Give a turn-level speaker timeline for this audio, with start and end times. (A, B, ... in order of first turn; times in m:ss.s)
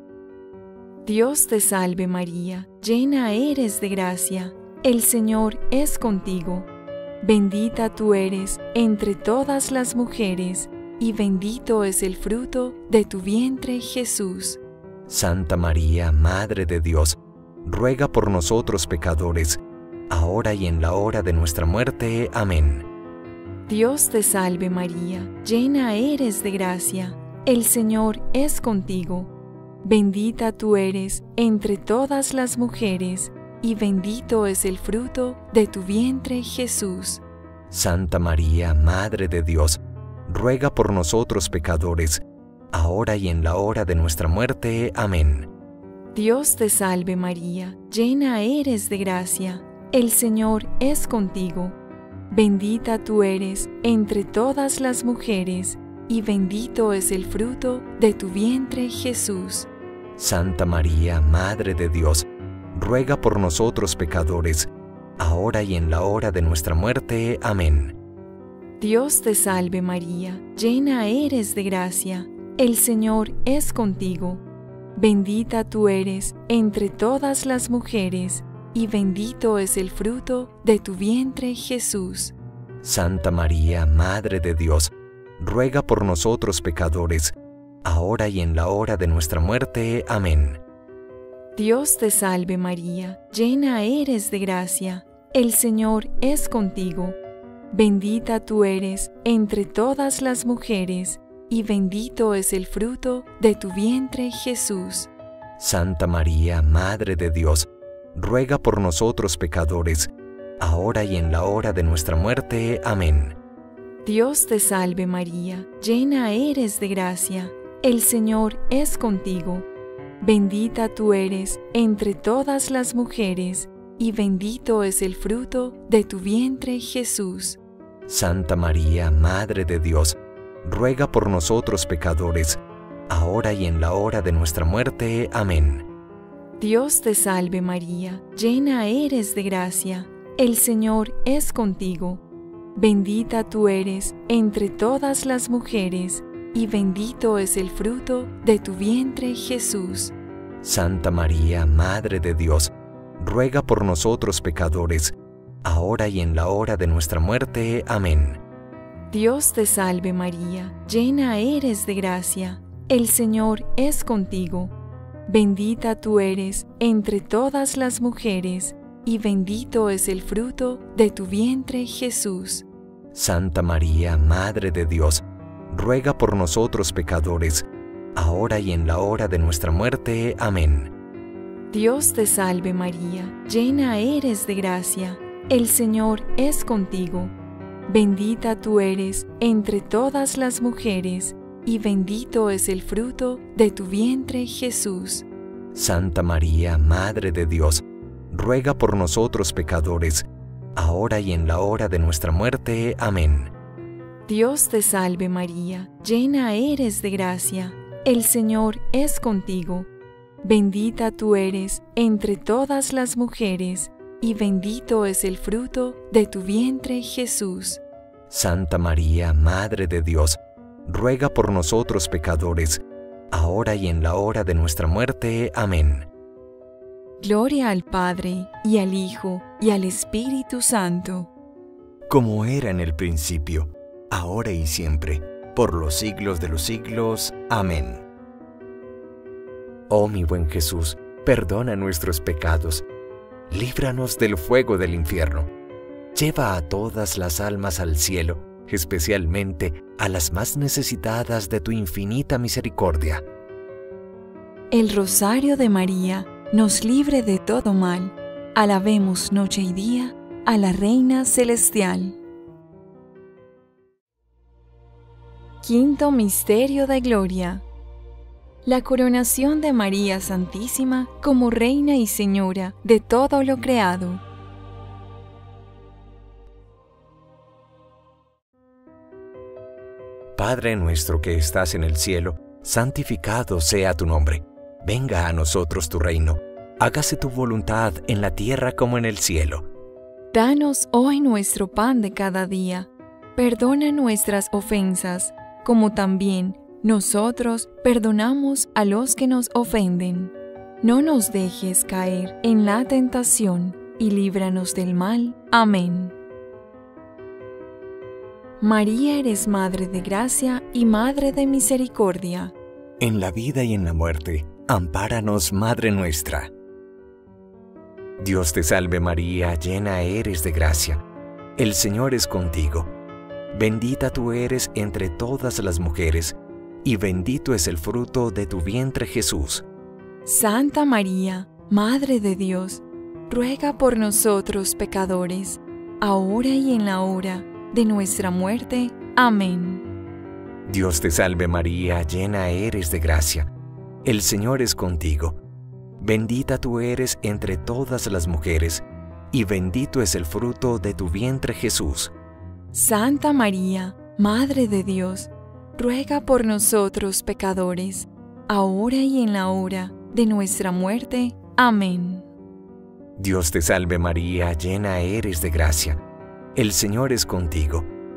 0:01.0-0:06.7 A
0:07.2-0:14.6 A
0:15.1-0:22.9 B
0:23.7-0:29.3 A
0:29.8-0:37.2 A
0:37.7-0:45.5 B
0:46.1-0:51.8 A
0:52.3-0:59.7 A
1:00.2-1:08.0 B
1:08.8-1:14.4 A
1:15.0-1:22.3 A
1:22.8-1:30.6 B
1:31.6-1:37.2 A
1:37.7-1:45.1 A
1:45.6-1:53.4 B
1:54.0-1:59.7 A
2:00.2-2:07.6 A
2:08.1-2:15.9 B
2:16.6-2:22.2 A
2:22.8-2:30.1 A
2:30.6-2:38.4 B
2:39.1-2:44.7 A
2:45.3-2:52.7 A
2:53.1-3:00.9 B
3:01.7-3:07.3 A
3:07.9-3:15.3 A
3:15.7-3:23.5 B
3:24.3-3:29.9 A
3:30.4-3:37.8 A
3:38.3-3:46.1 B
3:47.2-3:51.3 A
3:52.1-3:58.0 B
3:59.9-4:02.9 B
4:03.5-4:05.5 B
4:06.1-4:13.2 B
4:14.7-4:22.2 A
4:25.6-4:27.6 A
4:28.6-4:34.2 A
4:40.4-4:49.7 B
4:50.3-5:06.2 A
5:08.6-5:12.5 A
5:13.0-5:16.5 B
5:18.2-5:21.0 B
5:21.6-5:22.9 B
5:23.5-5:29.6 B
5:30.2-5:39.9 A
5:40.7-5:43.5 B
5:44.0-5:45.4 B
5:46.0-5:52.1 B
5:52.7-6:02.3 A
6:03.2-6:06.0 B
6:06.6-6:07.9 B